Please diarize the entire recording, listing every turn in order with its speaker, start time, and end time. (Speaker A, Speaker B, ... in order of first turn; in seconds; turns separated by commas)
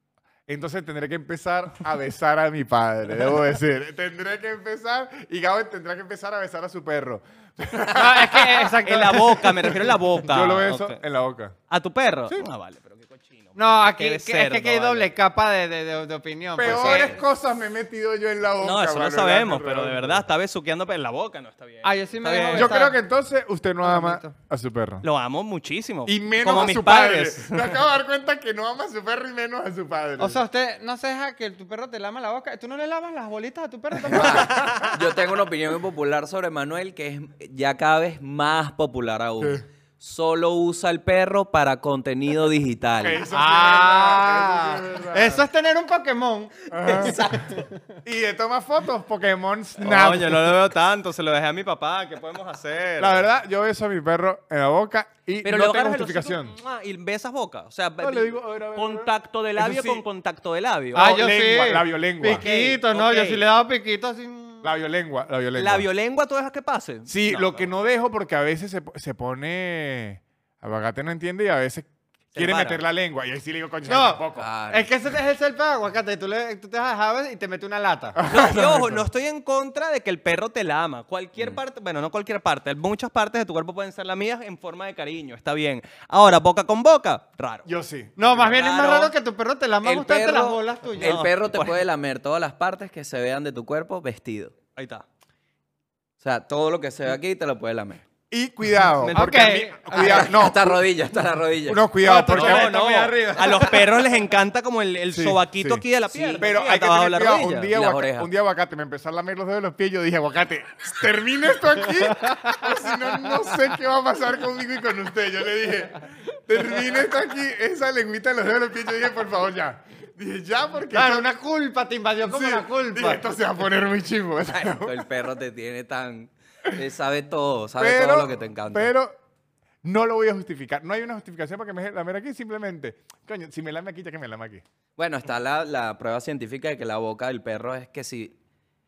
Speaker A: 0.5-11.5, Speaker B: 7.9-9.8, Speaker C: 8.8-11.0, Speaker C: 11.7-15.1, Speaker B: 13.6-17.2, Speaker A: 16.6-20.2, Speaker C: 16.7-17.1, Speaker C: 18.6-22.8, Speaker B: 21.8-23.0, Speaker A: 22.5-25.1, Speaker B: 23.8-24.4, Speaker C: 25.0-27.8, Speaker A: 26.1-30.4, Speaker B: 30.2-34.6, Speaker A: 34.0-35.0, Speaker D: 34.1-43.2, Speaker A: 39.4-39.6, Speaker A: 43.0-45.4, Speaker B: 43.3-47.8, Speaker A: 46.7-47.3, Speaker D: 46.9-47.6, Speaker A: 48.0-50.6, Speaker C: 49.8-53.2, Speaker A: 53.0-56.6, Speaker C: 55.4-61.2, Speaker A: 58.0-60.0, Speaker B: 61.0-64.7, Speaker A: 61.0-62.5, Speaker C: 62.3-63.5, Speaker A: 64.6-65.9, Speaker C: 65.6-67.7, Speaker A: 67.1-74.5, Speaker C: 72.3-72.8, Speaker B: 73.9-78.2, Speaker D: 74.3-74.9, Speaker A: 78.2-79.1, Speaker C: 78.3-87.7, Speaker A: 87.7-88.6, Speaker B: 88.2-91.2, Speaker C: 88.5-89.1, Speaker D: 89.8-94.5, Speaker C: 91.0-91.8, Speaker C: 94.8-95.0, Speaker D: 96.2-98.0, Speaker A: 98.3-100.9, Speaker C: 99.0-99.8, Speaker B: 99.1-100.3, Speaker D: 99.9-101.9, Speaker A: 101.7-103.1, Speaker B: 102.0-104.2, Speaker C: 102.3-107.7, Speaker A: 105.1-105.8, Speaker D: 106.1-106.4, Speaker A: 106.4-121.3, Speaker D: 107.7-108.3, Speaker B: 112.1-112.7, Speaker B: 120.9-123.2, Speaker A: 122.3-125.1, Speaker D: 124.5-128.9, Speaker A: 127.8-129.1, Speaker A: 129.8-134.6, Speaker D: 135.0-138.4